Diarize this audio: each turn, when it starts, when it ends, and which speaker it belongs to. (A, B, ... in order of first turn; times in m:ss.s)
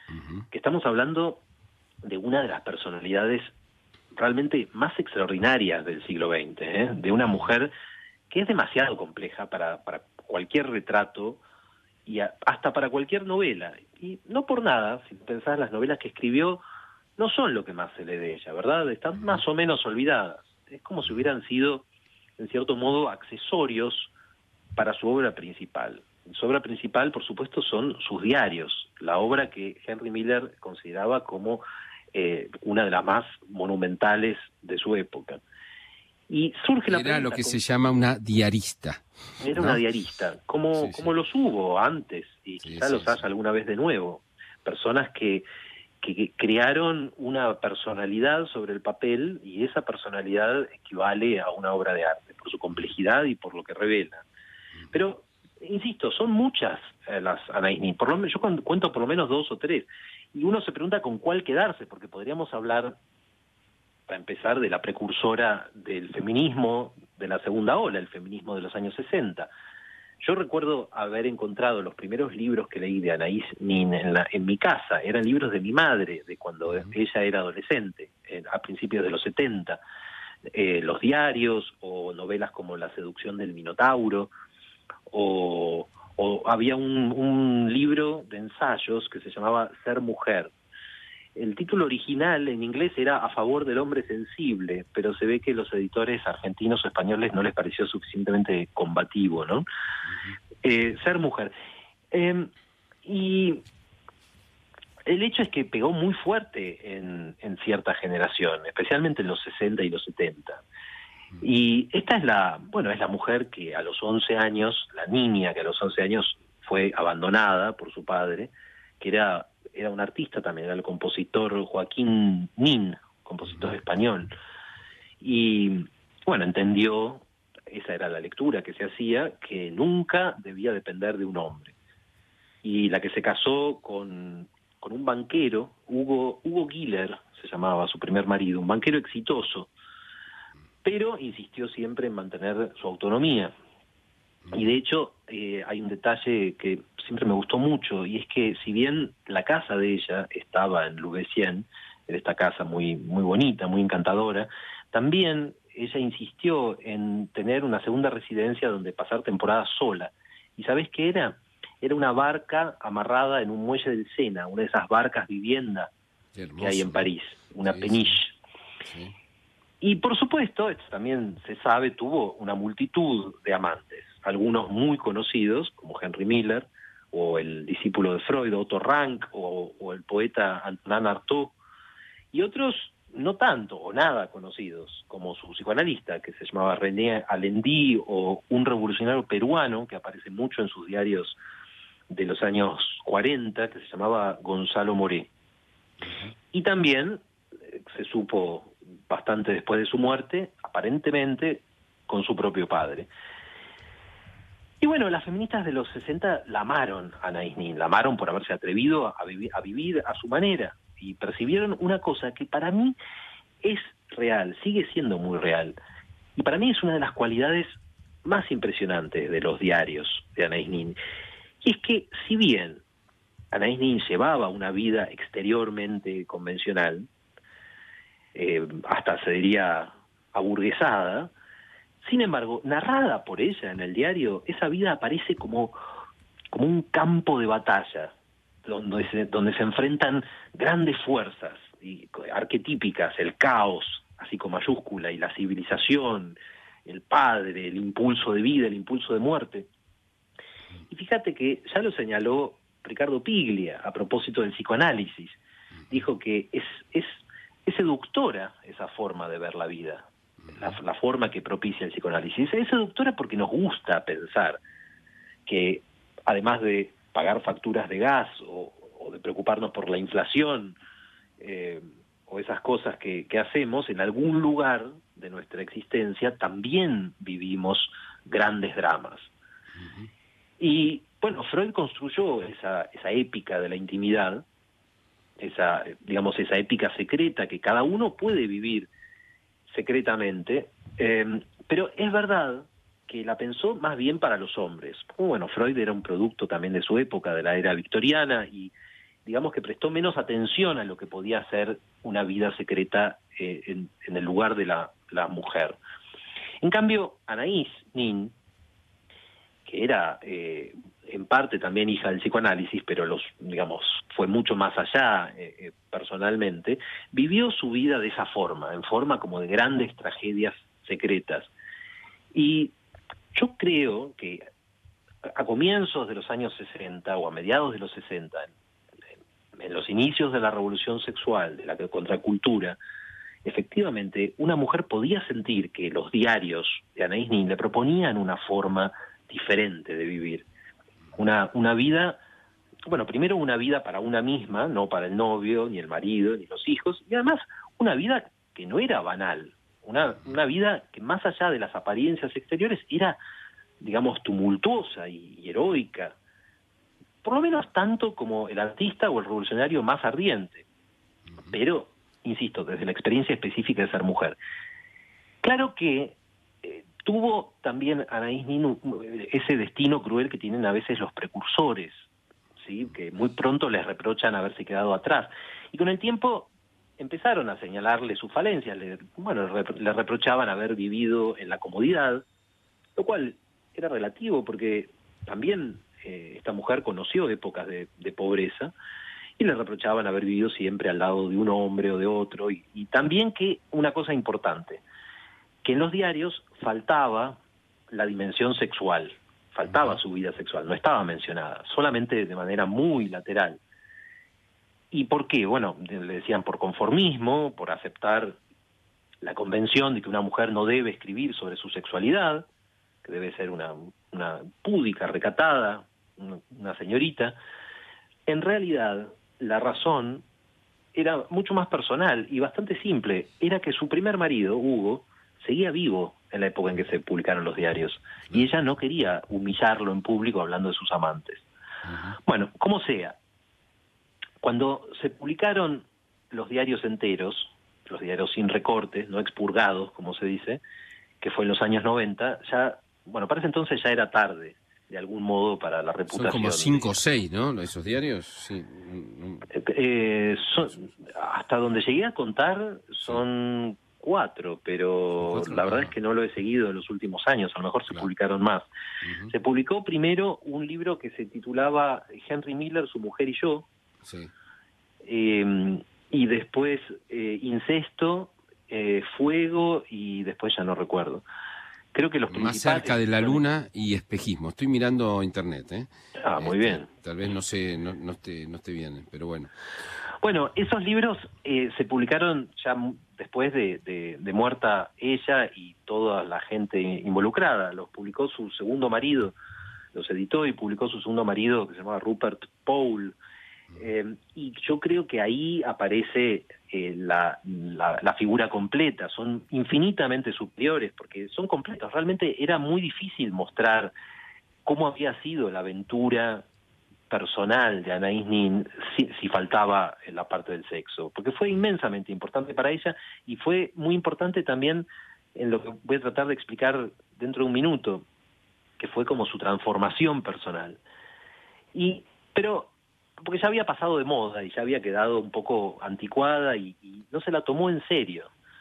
0:00.1-0:00.5 A
0:00.5-0:01.4 B
0:02.0-0:03.5 B
0:04.2-0:07.7 B
0:08.3-0:11.4 B
0:12.1-0:16.6 B
0:17.2-0:21.8 B
0:22.4-0:24.1 B
0:24.8-0:35.4 B
0:36.3-0:37.6 B
0:36.9-0:39.8 A
0:39.4-0:45.4 B
0:40.8-0:41.1 A
0:42.6-0:43.3 A
0:46.0-0:54.2 B
0:54.9-1:03.0 B
1:04.1-1:09.5 B
1:10.2-1:19.8 B
1:20.5-1:24.3 B
1:25.1-1:30.5 B
1:31.4-1:39.6 B
1:40.6-1:41.5 B
1:42.1-1:42.5 B
1:43.0-1:43.6 B
1:45.1-1:50.6 B
1:51.4-2:04.3 B
2:05.2-2:11.7 B
2:12.6-2:19.7 B
2:20.8-2:23.5 B
2:24.5-2:45.9 B
2:46.4-2:47.1 A
2:46.6-2:48.3 B
2:47.7-2:48.2 A
2:48.8-2:49.2 A
2:49.8-3:01.6 B
3:02.3-3:11.4 B
3:12.1-3:15.3 B
3:16.0-3:16.3 A
3:16.5-3:17.2 B
3:17.9-3:23.1 B
3:24.8-3:33.0 B
3:33.6-3:35.8 B
3:36.4-3:41.0 B
3:41.6-3:42.8 B
3:43.5-3:47.1 B
3:48.4-3:51.3 B
3:52.0-3:55.8 B
3:56.5-3:58.1 B
3:58.7-4:09.7 B
4:10.9-4:15.4 B
4:15.9-4:24.6 B
4:25.5-4:30.8 B
4:31.4-4:39.3 B
4:39.8-4:40.1 A
4:40.6-4:44.4 B
4:45.4-4:48.9 B
4:49.7-4:58.7 B
4:59.2-5:05.8 B
5:06.6-5:08.3 B
5:09.7-5:21.5 B
5:22.3-5:22.7 B
5:23.4-5:24.4 B
5:25.3-5:28.5 B
5:29.6-5:32.8 B
5:33.4-5:40.5 B
5:41.2-5:42.2 B
5:42.9-5:53.2 B
5:53.8-5:56.2 B
5:57.2-6:00.6 B
6:01.5-6:04.4 B
6:05.4-6:12.0 B
6:12.6-6:22.2 B
6:23.0-6:28.7 B
6:29.4-6:34.8 B
6:35.6-6:37.4 B
6:37.9-6:43.6 B
6:44.9-6:48.4 B
6:49.2-6:52.4 B
6:53.0-6:57.4 B
6:58.3-7:00.2 B
7:00.9-7:11.4 B
7:11.8-7:12.2 A
7:12.2-7:13.2 B
7:14.4-7:20.6 B
7:21.2-7:27.0 B
7:26.1-7:29.5 A
7:29.5-7:38.7 B
7:35.2-7:35.9 A
7:39.0-7:39.3 A
7:39.3-7:43.7 B
7:44.0-7:44.3 A
7:45.0-7:51.2 B
7:51.9-7:53.4 B
7:52.3-7:59.5 A
7:56.2-7:56.9 B
8:00.2-8:09.4 B
8:09.9-8:13.2 B
8:13.8-8:23.9 B
8:24.7-8:26.4 B
8:27.1-8:38.0 B
8:38.8-8:40.8 B
8:41.7-8:48.3 B